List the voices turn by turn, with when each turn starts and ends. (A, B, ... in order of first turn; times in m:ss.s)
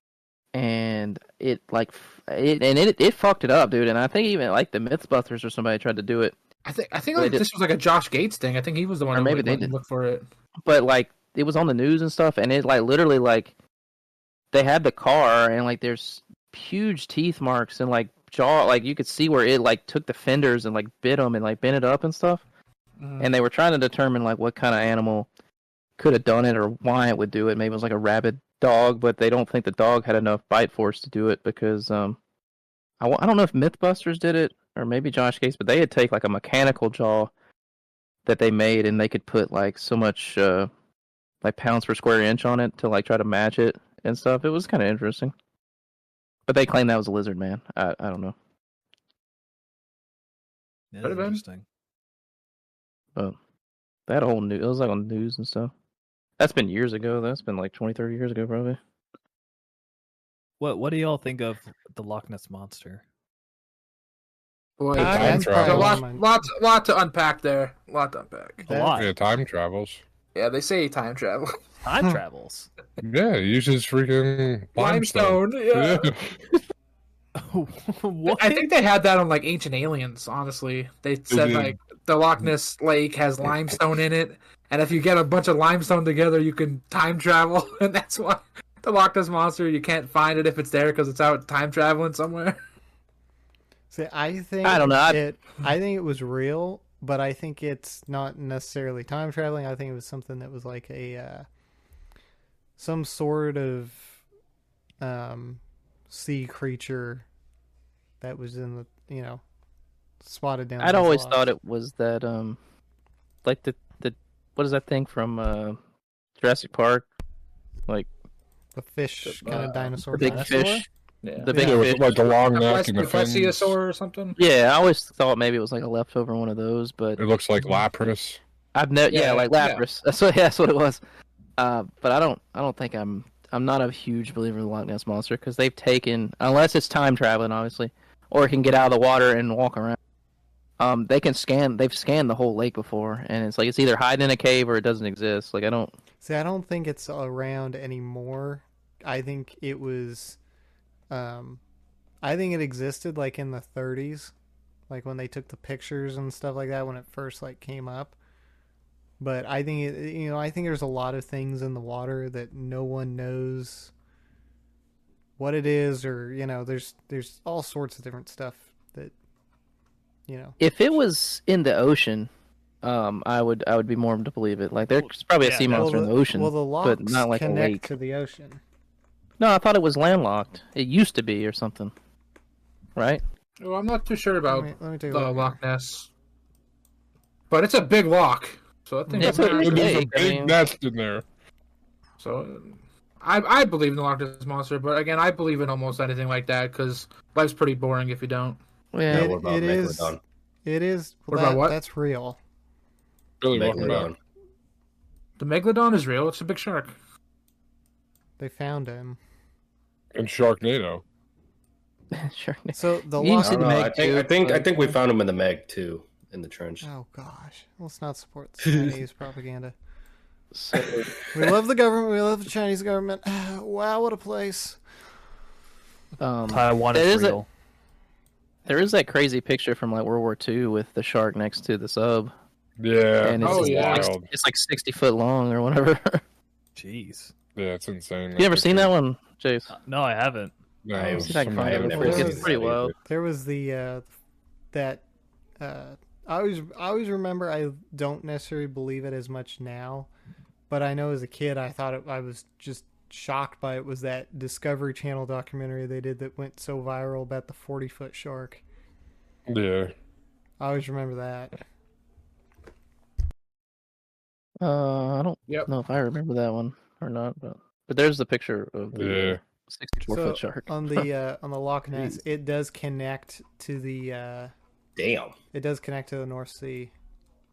0:00.5-0:06.4 A
0:06.6-0:10.2 B
0:07.2-0:07.4 A
0:09.1-0:09.8 A
0:10.6-0:13.5 A
0:14.5-0:22.4 A
0:23.0-0:23.3 B
0:23.2-0:25.3 A
0:26.0-0:32.2 A
0:33.0-0:37.3 A
0:38.2-0:40.7 A
0:41.4-0:45.3 A
0:46.5-0:48.4 A
0:50.9-0:51.6 C
0:51.0-0:51.4 B
0:54.1-0:55.7 A
0:56.4-0:58.8 A
1:00.6-1:03.0 C
1:04.8-1:08.6 B
1:05.0-1:06.0 D
1:05.0-1:06.3 E
1:08.6-1:09.1 C
1:08.7-1:09.1 E
1:09.0-1:10.0 D
1:10.4-1:11.5 B
1:11.8-1:12.7 C
1:13.0-1:16.6 D
1:14.8-1:16.1 B
1:17.4-1:18.7 C
1:18.3-1:32.6 B
1:21.3-1:21.8 D
1:33.9-1:41.5 E
1:34.6-1:35.2 A
1:42.8-1:44.2 E
1:45.0-1:47.2 E
1:48.2-1:49.4 E
1:50.2-1:51.4 E
1:50.8-1:52.6 A
1:53.4-1:55.8 A
1:56.4-1:57.1 A
1:58.8-2:00.8 E
1:59.2-2:00.0 B
2:00.1-2:00.9 A
2:00.2-2:00.7 C
2:01.2-2:01.5 B
2:01.4-2:02.1 A
2:01.5-2:01.9 E
2:01.5-2:03.7 D
2:02.5-2:04.4 B
2:04.4-2:07.2 A
2:07.2-2:08.4 D
2:08.8-2:11.0 A
2:09.1-2:09.8 B
2:11.6-2:20.0 A
2:20.8-2:25.9 A
2:26.2-2:30.4 E
2:31.1-2:31.6 E
2:32.2-2:34.3 E
2:34.9-2:38.2 E
2:39.2-2:43.9 E
2:45.4-2:49.1 E
2:50.3-2:50.6 E
2:50.6-2:52.3 A
2:52.8-2:57.9 A
2:55.0-2:56.0 C
2:55.7-2:58.6 E
2:59.4-3:01.9 A
3:03.0-3:03.2 A
3:03.6-3:06.1 B
3:04.5-3:05.6 E
3:07.5-3:09.9 B
3:09.1-3:09.5 E
3:09.2-3:10.6 A
3:09.4-3:11.2 D
3:12.2-3:18.6 B
3:18.9-3:19.3 A
3:19.1-3:20.2 F
3:19.1-3:22.4 E
3:21.3-3:21.8 B
3:23.4-3:24.1 D
3:23.5-3:24.2 F
3:25.4-3:27.0 B
3:28.4-3:29.2 E
3:30.2-3:31.0 D
3:32.1-3:34.7 A
3:32.8-3:33.8 E
3:33.4-3:36.8 F
3:36.8-3:39.7 E
3:38.6-3:39.0 F
3:40.5-3:41.1 A
3:41.3-3:44.8 E
3:46.2-3:47.4 A
3:46.5-3:47.5 C
3:48.6-3:52.3 A
3:52.8-3:54.3 D
3:53.2-3:56.2 A
3:53.4-3:54.1 B
3:56.8-3:57.3 C
3:57.6-3:58.9 D
3:58.4-3:59.7 A
3:59.7-4:00.5 C
4:00.8-4:02.5 D
4:01.0-4:02.9 F
4:01.1-4:02.9 A
4:02.0-4:02.5 E
4:03.0-4:04.1 E
4:04.7-4:05.0 E
4:05.6-4:10.1 E
4:10.7-4:18.6 E
4:19.5-4:19.9 D
4:20.6-4:21.6 E
4:24.6-4:31.1 A
4:28.9-4:29.4 D
4:30.1-4:34.5 E
4:35.0-4:35.4 F
4:35.5-4:36.9 E